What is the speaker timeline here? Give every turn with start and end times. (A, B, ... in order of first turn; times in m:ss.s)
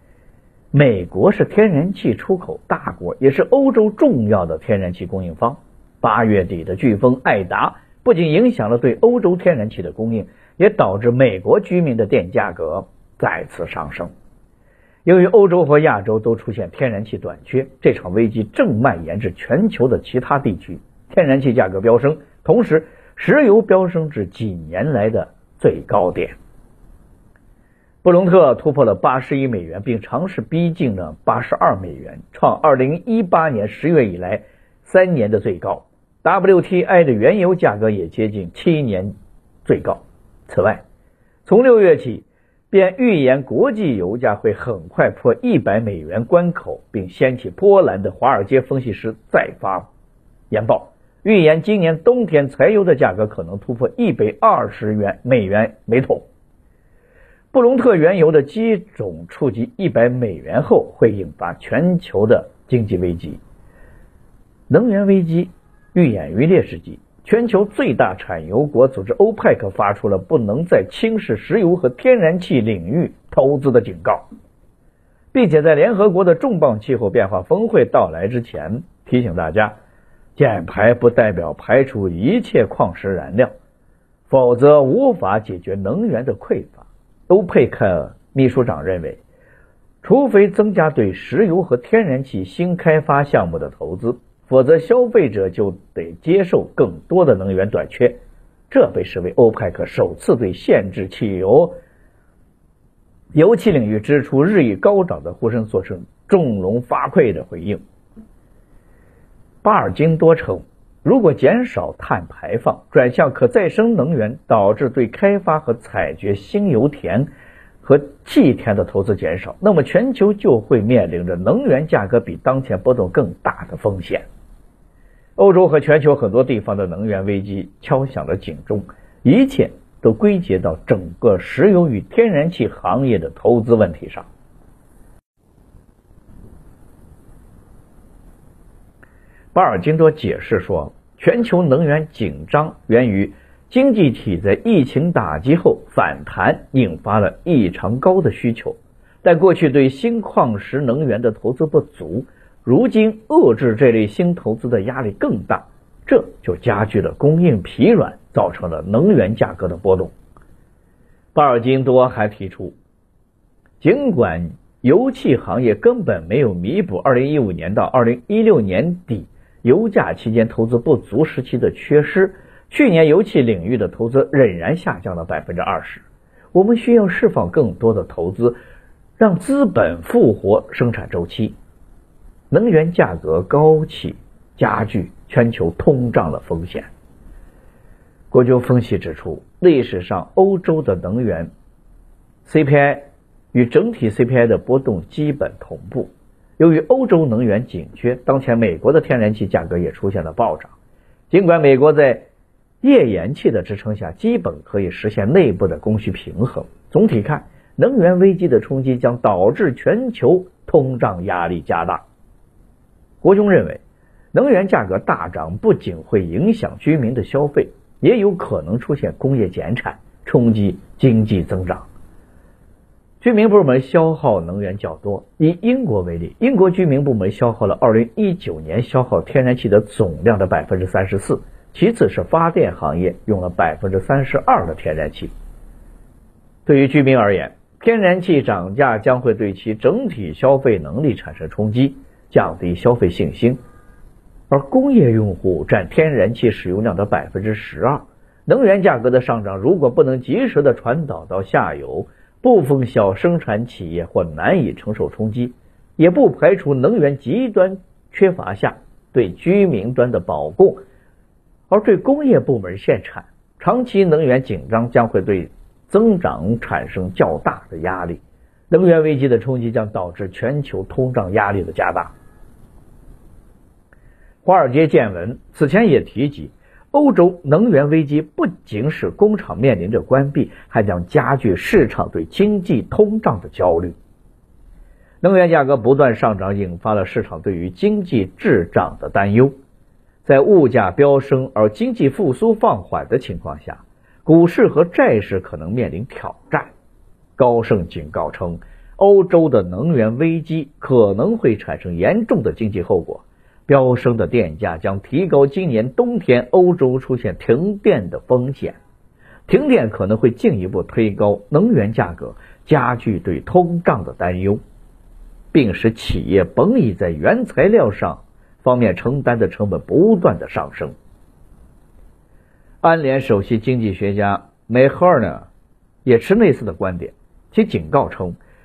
0:00.7-0:14.1 A
0:15.0-0:26.4 A
0:28.0-0:39.1 A
0:39.6-0:40.8 A
0:41.4-0:49.9 A
0:50.5-0:56.3 A
0:57.5-1:03.4 A
1:04.7-1:14.3 A
1:15.3-1:19.7 A
1:20.4-1:23.5 A
1:24.3-1:29.2 A
1:30.0-1:38.2 A
1:38.7-1:41.7 A
1:43.3-1:47.8 A
1:49.6-1:57.3 A
1:57.8-2:04.2 A
2:05.4-2:14.3 A
2:19.5-2:40.1 A
2:41.3-2:42.8 A
2:43.8-2:58.6 A
2:59.2-3:01.5 A
3:02.5-3:06.9 A
3:08.3-3:11.5 A
3:12.4-3:20.7 A
3:21.3-3:22.3 A
3:22.8-3:32.0 A
3:33.2-3:33.8 A
3:34.3-3:41.9 A
3:43.2-3:55.3 A
3:56.6-4:03.6 A
4:04.5-4:20.8 A
4:21.7-4:32.1 A
4:34.4-4:44.0 A
4:45.2-4:49.5 A
4:50.2-4:56.7 A
4:57.4-5:08.8 A
5:09.5-5:14.6 A
5:15.5-5:20.9 A
5:22.8-5:25.5 A
5:26.0-5:28.4 A